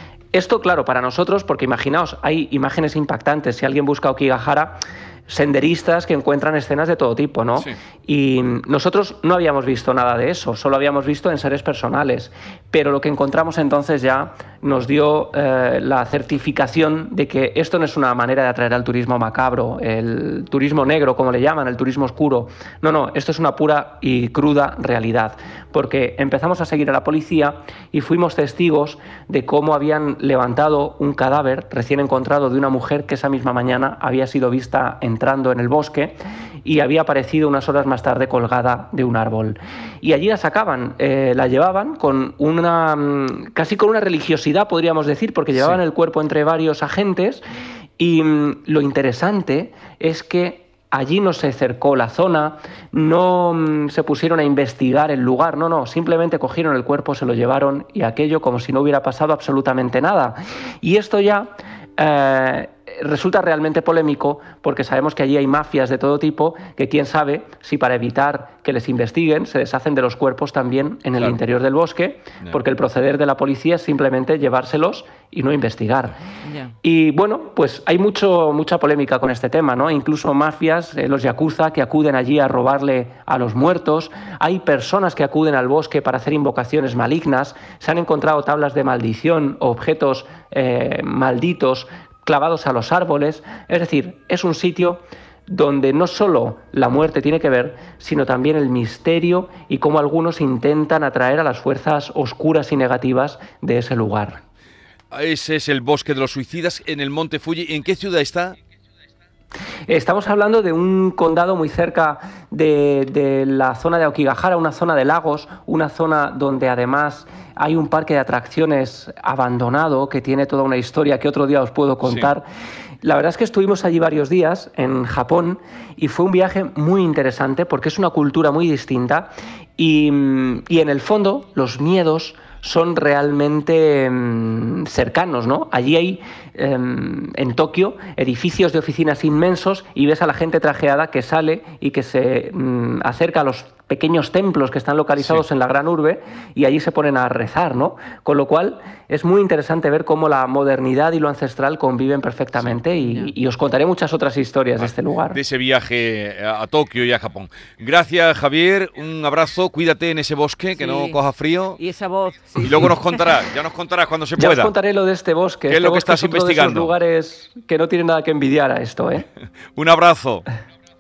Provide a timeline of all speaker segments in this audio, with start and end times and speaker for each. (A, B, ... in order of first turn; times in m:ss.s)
0:00.3-0:47.4 A
0:45.6-0:45.8 B
0:48.0-1:16.2 A
1:16.4-1:16.8 C
1:16.8-1:44.4 A
1:45.1-1:48.6 B
1:49.9-2:02.5 A
2:02.0-2:02.3 B
2:03.0-2:35.4 A
2:25.2-2:25.4 B
2:33.0-2:33.4 C
2:34.8-2:41.8 B
2:40.8-2:41.2 C
2:41.8-2:43.5 C
2:42.6-2:44.7 B
2:44.4-2:49.3 A
2:45.7-2:46.9 B
2:49.8-2:50.5 B